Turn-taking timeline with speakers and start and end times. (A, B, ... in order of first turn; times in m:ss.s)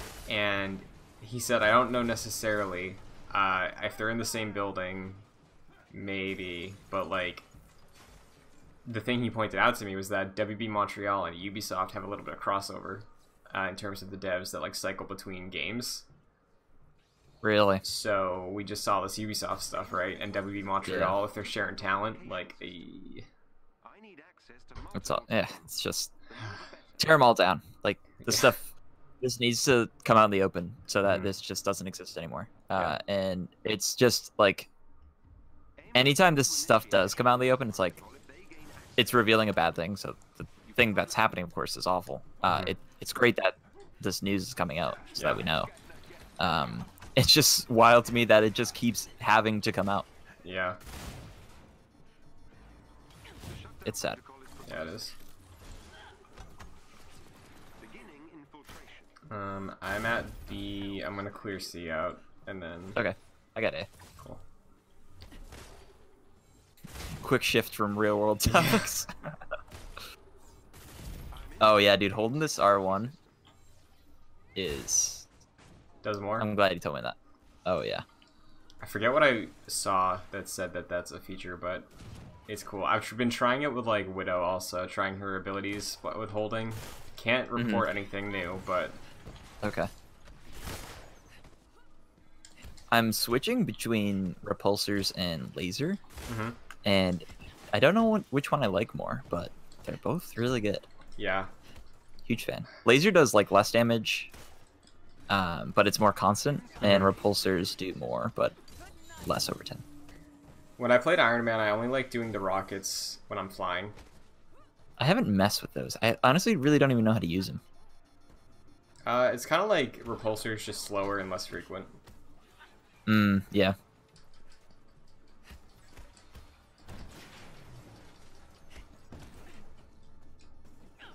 0:00.3-0:05.2 A
0:05.9-0:07.4 A
0:08.8-0:16.0 A
0:17.4-0:17.8 B
0:17.8-0:23.2 A
0:20.8-0:21.2 B
0:21.8-0:22.9 C
0:23.8-0:27.3 C
0:24.9-0:26.1 B
0:27.0-0:34.7 B
0:28.2-0:28.6 A
0:31.0-0:31.3 A
0:32.7-0:33.0 A
0:35.8-0:39.6 C
0:35.9-0:38.0 B
0:39.0-0:45.7 B
0:40.6-0:41.3 C
0:42.4-0:42.8 A
0:44.9-0:47.1 C
0:45.2-0:45.4 A
0:46.4-0:50.0 B
0:50.4-0:50.8 A
0:53.3-0:55.2 C
0:53.8-0:54.2 B
0:54.6-0:55.1 A
0:57.8-0:59.2 C
0:59.3-1:03.0 A
1:00.8-1:01.6 C
1:03.0-1:03.9 B
1:07.2-1:09.1 B
1:08.4-1:08.9 A
1:11.3-1:13.2 C
1:11.6-1:13.1 B
1:14.5-1:15.2 B
1:16.0-1:16.5 A
1:16.4-1:18.0 B
1:18.8-1:21.9 A
1:22.5-1:29.0 A
1:27.6-1:27.8 B
1:29.6-1:29.9 B
1:32.9-1:36.0 B
1:36.3-1:36.6 A
1:36.8-1:40.8 B
1:41.2-1:41.5 A
1:42.2-1:44.3 B
1:45.3-1:48.5 B
1:46.8-1:47.1 A
1:49.2-1:49.8 B
1:50.8-1:54.0 A
1:55.0-1:57.6 B
1:59.0-2:01.9 A
2:03.1-2:03.8 B